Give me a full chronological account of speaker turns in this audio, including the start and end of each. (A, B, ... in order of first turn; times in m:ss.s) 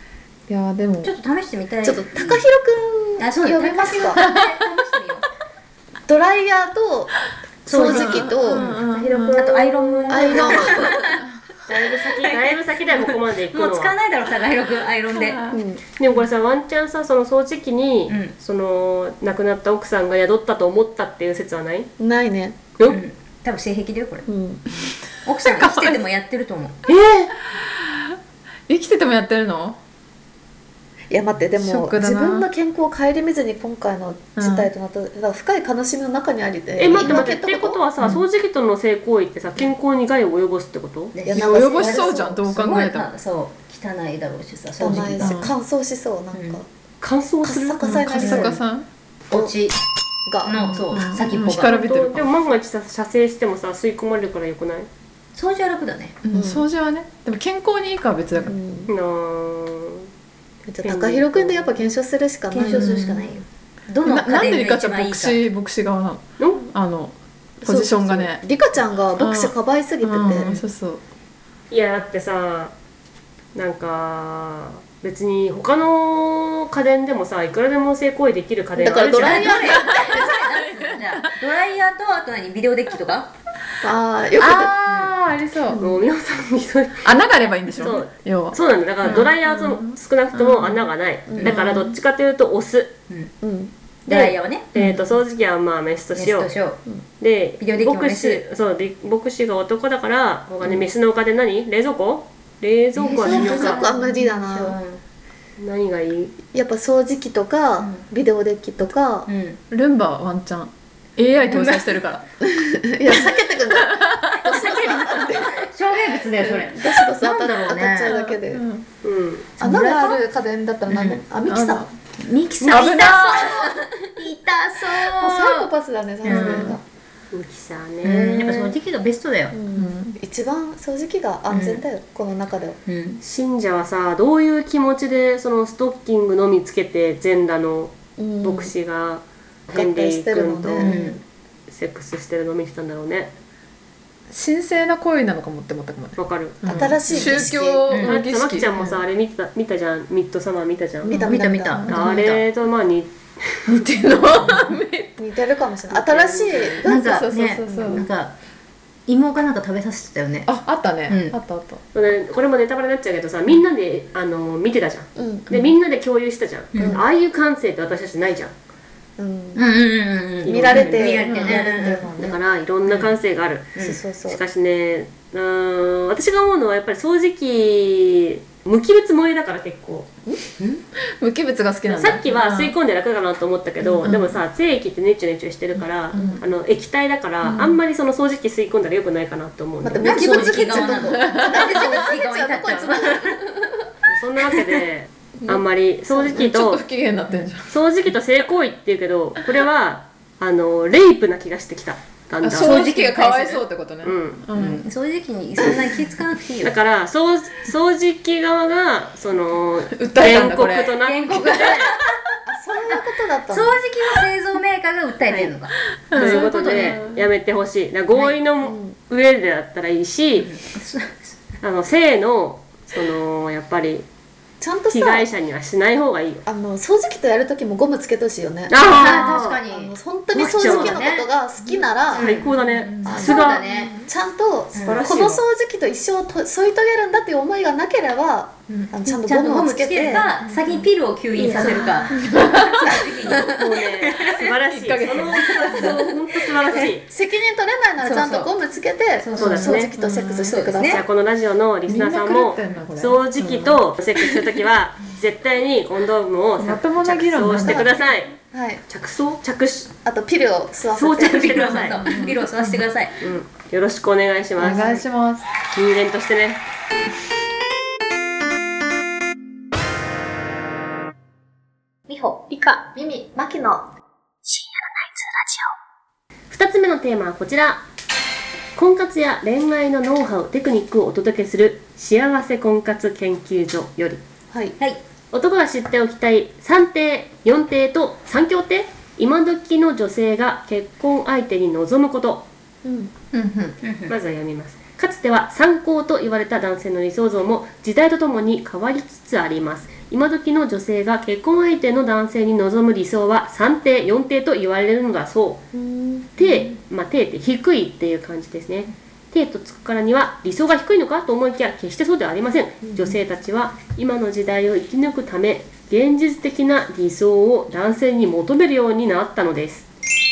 0:00.5-0:01.2 A
0:01.0-0:02.4 B
0:01.8-0:04.2 C
0:03.2-0:05.3 B
0:04.2-0:04.5 A
0:06.1-0:08.7 C
0:07.7-0:15.4 B
0:07.8-0:09.4 A
0:08.9-0:11.0 D
0:10.1-0:11.0 C
0:11.7-0:14.0 D
0:15.1-0:15.6 A
0:15.5-0:15.8 C
0:16.0-0:21.9 D
0:18.1-0:18.3 B
0:22.0-0:22.6 C
0:22.9-0:24.3 B
0:24.3-0:24.7 C
0:25.2-0:26.8 B
0:25.4-0:26.0 A
0:26.9-0:27.3 D
0:27.4-0:28.2 A
0:28.7-0:29.8 A
0:31.1-0:37.8 C
0:31.6-0:32.5 A
0:34.4-0:34.7 A
0:36.8-0:41.2 D
0:41.1-0:45.4 B
0:41.3-0:42.4 C
0:41.4-0:43.1 A
0:44.8-0:46.7 C
0:45.2-0:45.5 A
0:46.3-0:46.6 B
0:47.0-0:48.4 D
0:47.4-0:48.6 C
0:47.8-0:48.9 A
0:49.3-0:49.8 B
0:50.3-0:50.8 C
0:50.4-0:51.7 B
0:50.6-0:52.3 A
0:51.4-0:54.9 D
0:55.4-0:56.2 B
0:56.2-0:58.6 A
0:56.3-0:56.6 C
0:58.4-0:58.9 C
0:58.9-1:00.1 D
1:00.7-1:02.9 C
1:00.8-1:01.7 D
1:02.5-1:05.4 B
1:02.6-1:03.3 A
1:04.0-1:08.4 A
1:06.4-1:06.7 D
1:07.6-1:10.6 C
1:09.2-1:11.0 A
1:11.7-1:12.7 D
1:13.6-1:19.8 D
1:18.8-1:20.4 C
1:19.1-1:23.3 B
1:19.7-1:21.4 A
1:23.8-1:24.7 C
1:24.4-1:25.9 A
1:24.9-1:25.1 B
1:25.8-1:27.2 D
1:27.0-1:30.9 A
1:27.8-1:33.0 D
1:31.3-1:31.6 C
1:31.4-1:31.9 A
1:33.4-1:33.7 C
1:34.1-1:34.7 B
1:34.1-1:36.5 D
1:34.8-1:35.0 A
1:36.1-1:36.8 B
1:37.2-1:43.9 D
1:37.6-1:38.4 B
1:43.0-1:45.0 B
1:43.2-1:44.8 C
1:45.6-1:46.4 D
1:46.5-1:49.3 C
1:47.8-1:48.0 B
1:49.3-1:49.6 B
1:49.7-1:52.2 A
1:51.5-1:51.9 B
1:52.5-1:55.7 C
1:53.8-1:54.4 A
1:54.4-1:58.2 B
1:56.4-1:58.6 C
1:58.0-1:58.9 A
1:59.0-1:59.5 D
1:59.6-2:01.9 C
1:59.6-2:00.2 A
1:59.7-2:00.1 B
2:00.9-2:01.2 B
2:01.5-2:01.9 A
2:02.2-2:05.7 B
2:02.6-2:03.1 D
2:02.7-2:03.8 A
2:04.9-2:06.8 C
2:06.2-2:06.8 B
2:06.3-2:06.8 A
2:07.3-2:08.7 D
2:08.0-2:09.6 B
2:09.5-2:12.8 C
2:09.7-2:10.2 A
2:11.5-2:11.8 B
2:12.9-2:13.2 B
2:13.2-2:21.1 D
2:18.2-2:18.7 C
2:19.7-2:21.2 C
2:20.8-2:21.2 B
2:21.7-2:23.3 D
2:24.3-2:29.0 A
2:26.2-2:27.0 D
2:26.7-2:27.9 C
2:27.1-2:27.4 B
2:27.9-2:28.2 B
2:28.0-2:31.2 D
2:31.0-2:32.1 C
2:31.2-2:32.4 B
2:31.8-2:32.1 A
2:31.9-2:33.6 D
2:33.7-2:35.2 A
2:35.2-2:38.1 C
2:35.9-2:36.8 D
2:36.6-2:38.0 A
2:36.8-2:38.4 B
2:39.1-2:40.5 B
2:40.5-2:41.8 A
2:41.1-2:41.4 B
2:41.9-2:48.5 D
2:45.2-2:45.6 C
2:46.7-2:47.0 B
2:49.2-2:49.6 C
2:49.6-2:52.1 B
2:50.4-3:00.1 D
2:50.4-2:52.4 C
2:51.3-2:51.6 A
2:52.9-2:53.1 B
2:53.8-2:54.4 C
3:01.2-3:02.7 A
3:01.9-3:10.9 D
3:04.0-3:04.4 A
3:06.1-3:06.4 A
3:07.5-3:07.8 A
3:09.8-3:13.6 C
3:10.0-3:13.4 B
3:11.1-3:11.6 A
3:14.1-3:16.8 D
3:16.2-3:17.8 A
3:17.7-3:22.9 D
3:22.4-3:24.8 A
3:22.5-3:23.6 B
3:24.0-3:24.4 D
3:24.6-3:26.8 B
3:26.6-3:32.0 D
3:29.9-3:31.8 A
3:31.0-3:32.1 B
3:32.5-3:33.8 C
3:33.5-3:37.0 B
3:36.1-3:37.2 A
3:36.1-3:40.5 D
3:38.6-3:38.9 C
3:40.4-3:41.4 B
3:41.6-3:44.1 D
3:44.6-3:45.3 C
3:44.9-3:46.4 D
3:46.5-3:52.4 C
3:48.7-3:49.6 D
3:48.8-3:49.9 B
3:50.3-3:51.0 D
3:50.6-3:51.3 B
3:52.1-3:54.0 B
3:52.1-3:53.6 D
3:52.6-3:53.1 A
3:53.0-4:00.3 C
3:54.7-3:55.0 B
3:54.8-3:55.4 D
3:58.7-4:04.4 B
4:00.4-4:00.9 A
4:01.4-4:02.0 D
4:01.6-4:03.1 A
4:01.6-4:02.1 C
4:03.3-4:07.1 D
4:04.4-4:06.2 A
4:07.1-4:11.0 C
4:08.0-4:08.5 B
4:09.2-4:11.0 B
4:09.4-4:09.9 D
4:10.0-4:10.6 A
4:10.8-4:18.4 D
4:11.9-4:13.8 A
4:16.6-4:17.8 A
4:17.6-4:17.9 C
4:18.5-4:18.8 C
4:18.9-4:19.9 D
4:20.0-4:21.9 C
4:21.0-4:22.1 D
4:21.0-4:23.2 B
4:22.0-4:22.9 A
4:23.2-4:25.0 D
4:24.6-4:25.5 A
4:24.6-4:25.0 C
4:25.7-4:26.6 D
4:32.1-4:33.8 C
4:36.5-4:37.8 D
4:38.8-4:44.2 D
4:44.5-4:44.8 C
4:45.3-4:52.5 D
4:52.8-4:53.1 C
4:53.3-4:53.8 A
4:53.8-4:54.1 B
4:54.1-5:05.6 D
5:05.7-5:06.3 C
5:06.4-5:19.9 D
5:12.8-5:13.2 C